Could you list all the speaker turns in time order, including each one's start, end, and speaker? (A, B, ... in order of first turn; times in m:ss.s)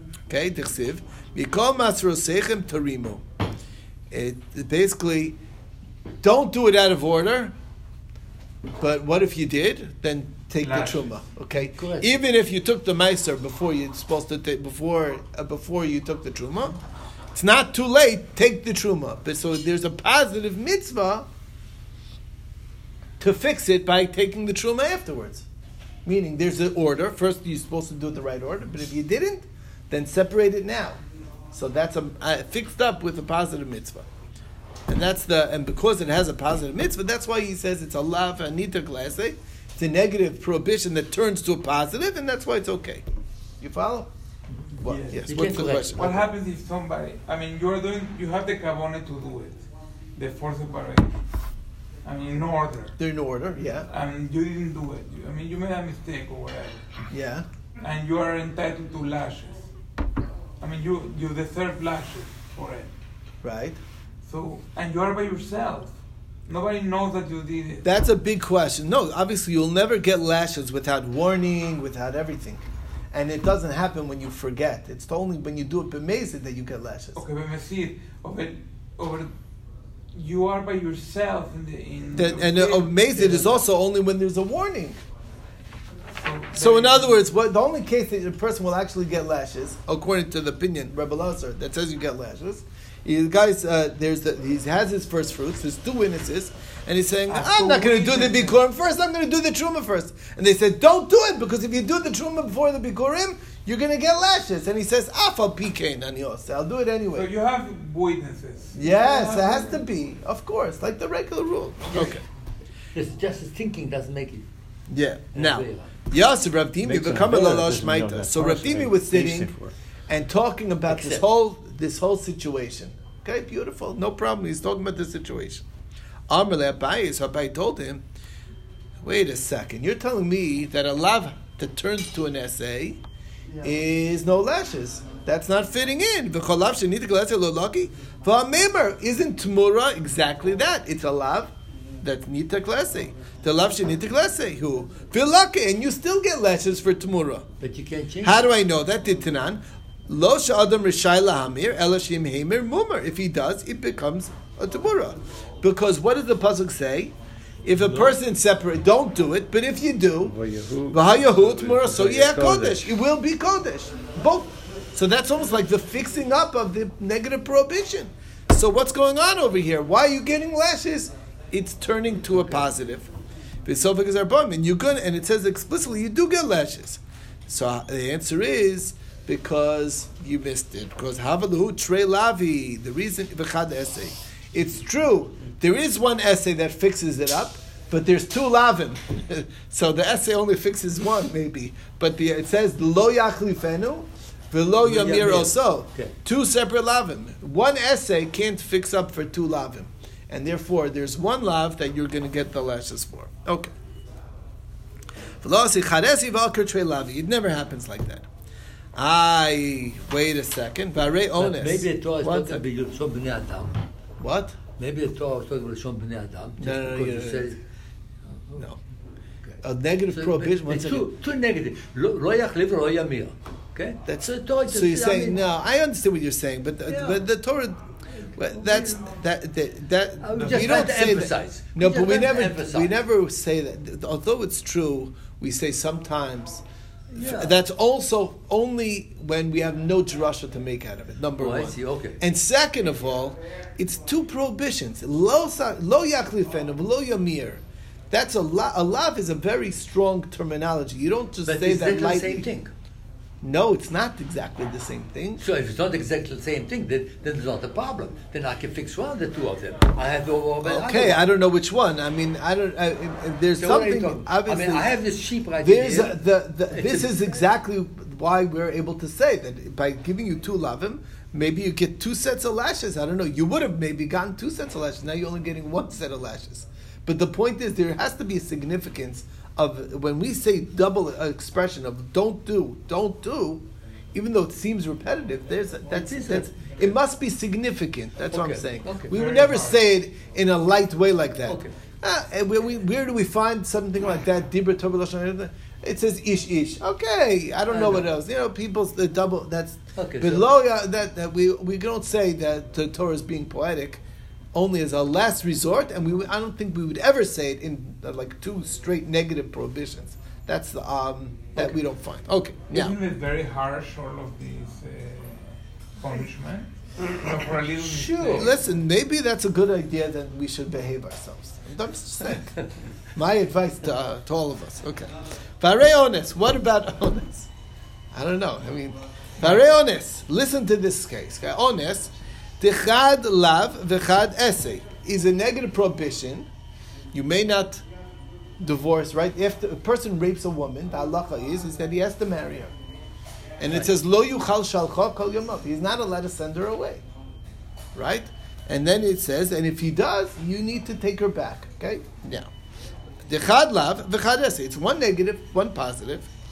0:00.3-0:03.2 A
0:04.1-0:05.4 A
0:06.2-0:07.5 A
0:08.8-0:16.8 A
0:10.6-0:11.1 B
0:11.5-0:12.1 C
0:17.3-0:21.3 A
0:23.2-0:25.4 A
0:26.0-0:31.0 A
0:31.5-0:34.1 A
0:34.9-0:43.0 A
0:43.6-0:44.1 A
0:44.8-0:46.1 A
0:44.8-0:45.2 B
0:45.1-0:46.2 C
0:46.0-0:49.6 B
0:50.2-0:51.2 B
0:52.0-0:53.0 B
0:53.0-0:53.9 A
0:53.9-0:56.9 B
0:57.1-0:57.4 A
0:57.8-0:59.7 B
1:00.6-1:02.9 B
1:03.4-1:03.8 A
1:04.2-1:05.9 B
1:06.5-1:07.9 B
1:07.8-1:17.2 A
1:17.1-1:19.3 B
1:20.1-1:23.6 B
1:22.1-1:25.0 A
1:26.2-1:27.2 B
1:26.5-1:47.3 A
1:37.3-1:38.6 B
1:47.1-1:49.8 B
1:48.7-1:52.2 A
1:52.9-1:54.5 C
1:54.9-1:59.5 A
1:55.3-1:55.9 C
1:56.8-1:59.7 D
2:00.1-2:05.6 A
2:00.9-2:01.2 C
2:06.3-2:08.0 A
2:09.0-2:13.0 A
2:13.6-2:27.4 A
2:27.6-2:28.5 C
2:28.2-2:37.1 A
2:37.6-2:40.4 A
2:37.8-2:38.1 C
2:40.3-2:42.9 D
2:40.9-2:53.1 A
2:53.6-3:23.7 A
3:14.8-3:16.1 C
3:25.4-3:28.3 A
3:29.0-3:32.6 A
3:31.4-3:33.8 C
3:34.2-3:34.6 A
3:34.8-3:37.6 C
3:36.6-3:37.5 A
3:38.4-3:38.6 C
3:39.4-3:45.4 C
3:39.6-3:41.1 A
3:44.1-3:56.6 A
3:48.5-3:49.1 C
3:50.2-3:52.9 C
3:57.1-3:57.6 C
3:57.1-4:12.6 A
4:01.4-4:02.2 C
4:11.4-4:12.7 C
4:13.4-4:15.4 A
4:15.4-4:21.2 C
4:20.6-4:24.9 A
4:23.6-4:26.2 C
4:25.6-5:04.0 A
4:26.7-4:27.4 C
4:45.9-4:46.6 C
4:48.3-4:49.2 C
4:49.1-4:49.8 B
4:51.5-4:51.7 C
4:57.7-4:58.1 C
5:00.0-5:00.4 C
5:04.5-5:13.0 A
5:12.7-5:18.6 B
5:17.9-5:18.4 C
5:18.3-5:27.5 A
5:28.1-5:36.5 A
5:37.1-5:37.8 A
5:38.6-5:42.7 A
5:43.6-5:47.0 A
5:47.9-5:52.5 A
5:53.3-5:56.3 A